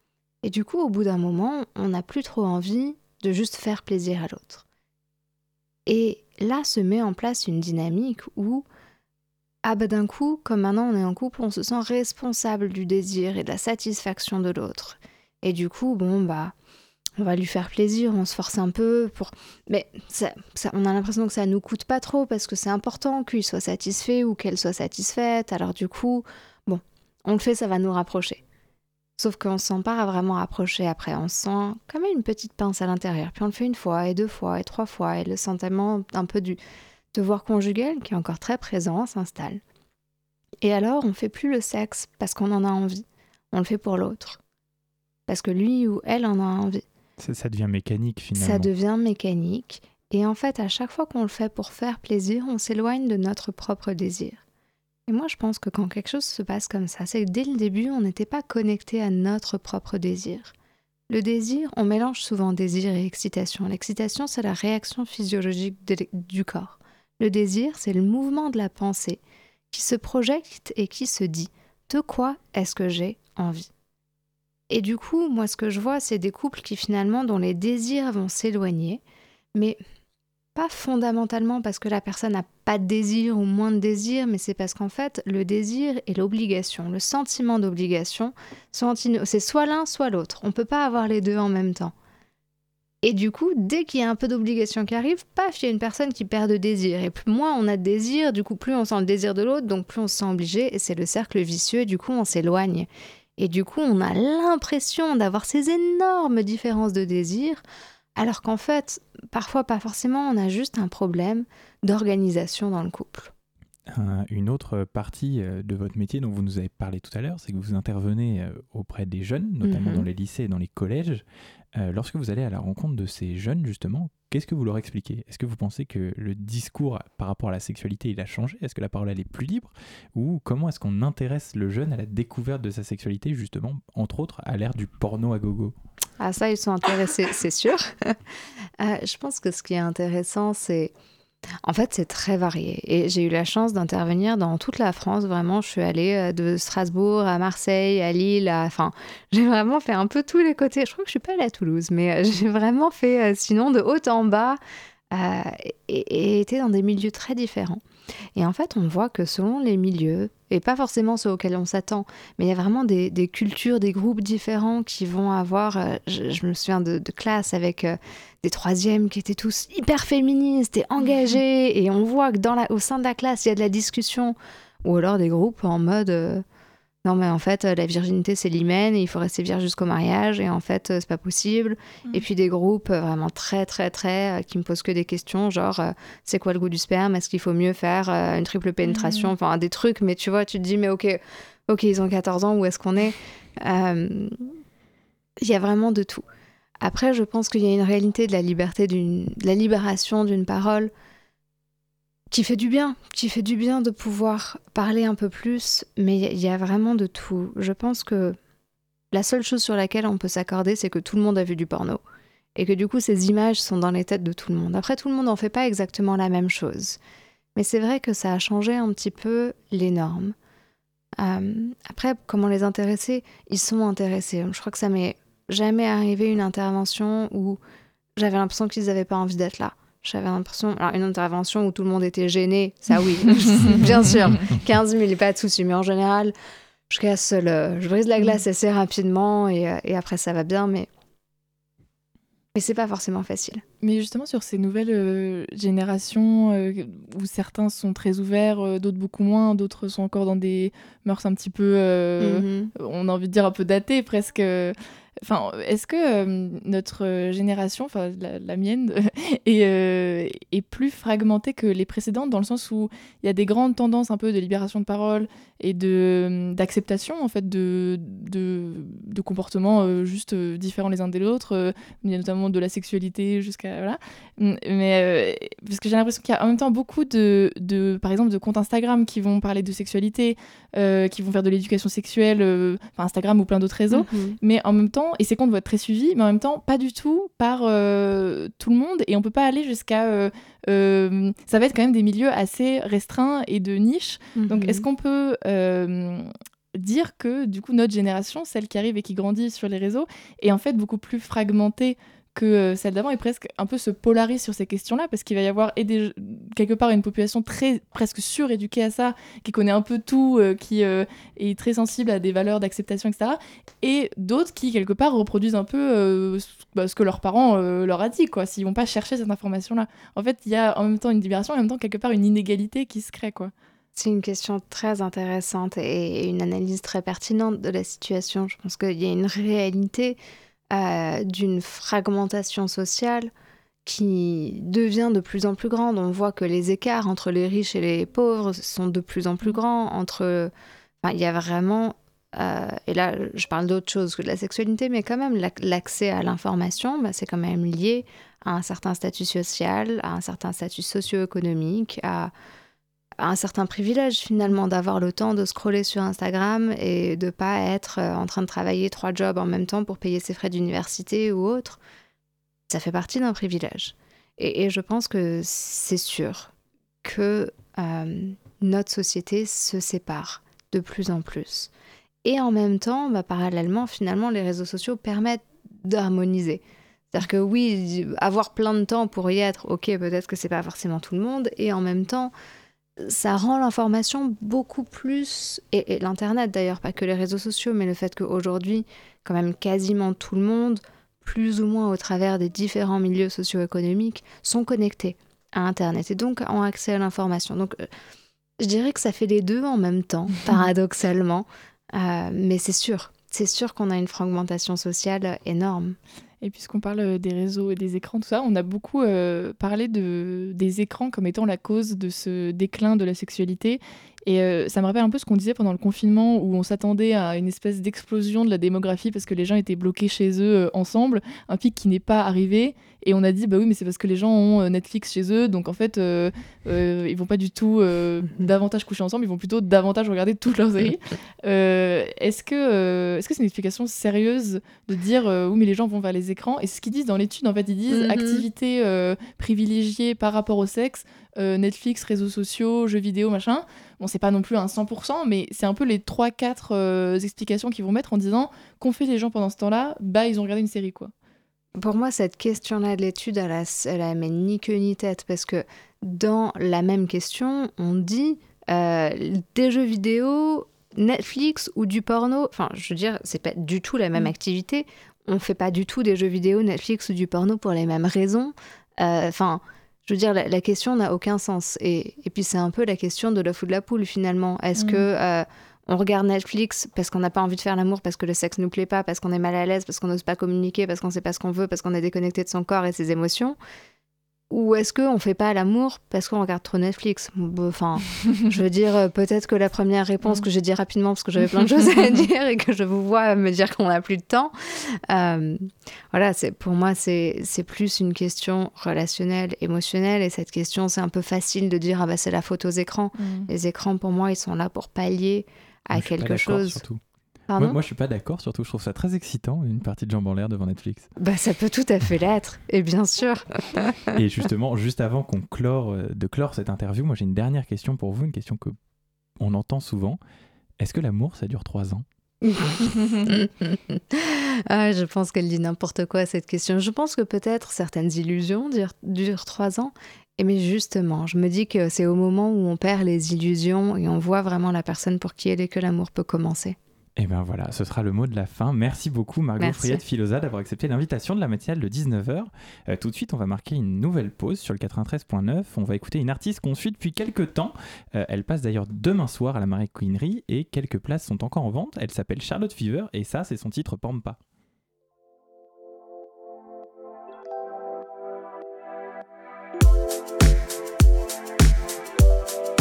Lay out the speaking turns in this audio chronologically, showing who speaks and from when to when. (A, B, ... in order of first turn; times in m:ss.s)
0:00.4-0:04.6 A
0:05.9-0:08.6 A
0:09.6-0:16.5 A
0:17.2-0:28.4 A
0:29.2-0:36.6 A
0:37.1-0:39.6 A
0:40.6-0:44.4 A
0:45.3-0:46.8 A
0:47.2-0:48.7 B
0:48.4-0:54.4 A
0:55.1-1:00.5 A
1:01.1-1:09.2 A
1:09.7-1:13.7 A
1:14.7-1:19.0 A
1:20.5-1:31.9 A
1:33.0-1:47.6 A
1:48.2-1:53.3 A
1:53.9-2:15.7 B
1:59.6-2:00.1 A
2:16.2-2:18.2 A
2:18.8-2:20.9 A
2:21.6-2:34.6 A
2:35.1-2:37.8 A
2:38.4-2:56.4 A
2:57.0-3:14.4 A
3:08.9-3:09.3 C
3:15.4-3:16.2 A
3:16.8-3:20.9 A
3:22.3-3:28.4 A
3:29.1-3:32.0 A
3:32.6-3:37.0 A
3:37.6-3:40.4 A
3:41.2-3:47.6 A
3:48.2-3:56.3 A
3:53.6-3:53.9 C
3:56.9-4:00.9 A
4:02.5-4:03.6 A
4:03.8-5:23.5 C
4:12.2-4:12.7 A
4:43.9-4:44.4 A
4:54.4-4:54.8 A
5:23.9-5:30.2 A
5:30.7-5:33.3 A
5:33.8-5:40.5 A
5:41.0-5:52.3 A
5:53.2-6:01.8 A
6:02.7-6:06.5 A
6:07.0-6:11.7 A
6:12.2-6:22.3 A
6:23.0-6:37.8 A
6:38.6-6:46.0 A
6:46.4-7:31.1 C
7:17.9-7:18.4 A
7:31.8-8:03.6 A
7:54.8-7:55.0 C
8:04.5-8:26.8 A
8:23.2-8:23.5 C
8:25.9-8:27.0 B
8:27.5-8:27.8 A
8:27.6-8:31.1 B
8:31.2-8:34.1 A
8:34.1-8:38.8 B
8:39.4-8:40.2 B
8:40.8-8:42.0 B
8:42.4-8:56.8 A
8:57.2-9:14.4 B
8:59.6-9:00.0 A